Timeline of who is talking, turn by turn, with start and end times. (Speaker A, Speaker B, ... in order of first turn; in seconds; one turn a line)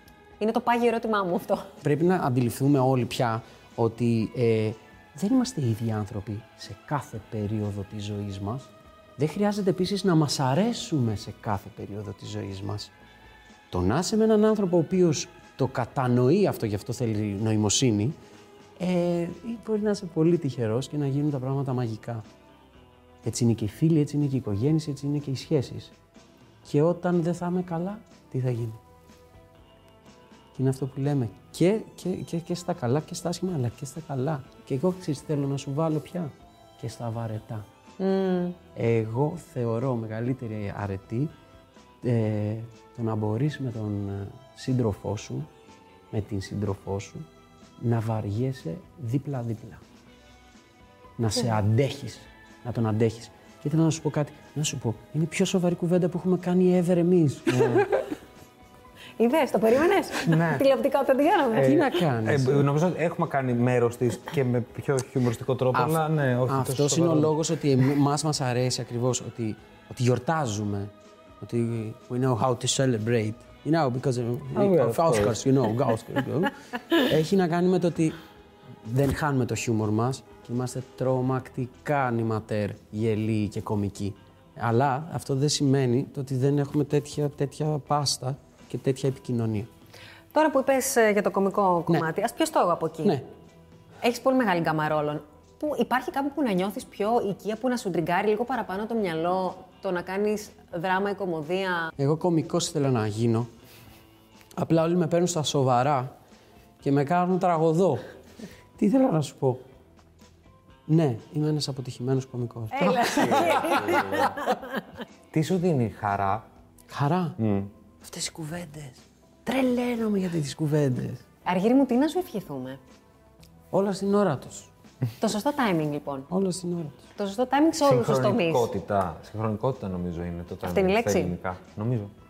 Speaker A: 0.4-1.7
Speaker B: 1.8-12.9
Speaker B: 13.7-18.2
Speaker B: 18.8-22.2
Speaker B: 23.2-25.9
Speaker B: 26.6-28.8
Speaker B: 30.5-37.6
Speaker A: 38.0-38.6
Speaker B: 38.7-41.3
Speaker B: 42.0-45.5
Speaker B: 46.1-47.2
Speaker B: 47.8-49.8
Speaker B: 51.2-57.9
Speaker C: 57.5-57.9
Speaker A: 59.2-61.7
Speaker C: 60.2-60.6
Speaker C: 61.5-67.4
Speaker B: 61.6-62.7
Speaker B: 65.7-78.2
Speaker C: 74.5-75.4
Speaker B: 78.8-89.7
Speaker A: 90.3-93.2
Speaker A: 94.0-101.9
Speaker B: 102.0-103.5
Speaker B: 104.6-106.1
Speaker B: 106.8-108.0
Speaker B: 108.8-109.6
Speaker B: 110.9-114.4
Speaker A: 112.7-114.8
Speaker C: 113.1-114.4
Speaker C: 115.3-116.5
Speaker B: 116.9-117.4
Speaker C: 117.4-117.7
Speaker B: 118.0-121.2
Speaker A: 121.4-122.8
Speaker B: 123.7-124.7
Speaker A: 125.2-126.3
Speaker B: 126.3-127.0
Speaker A: 127.2-128.7
Speaker C: 127.8-132.1
Speaker A: 130.6-131.3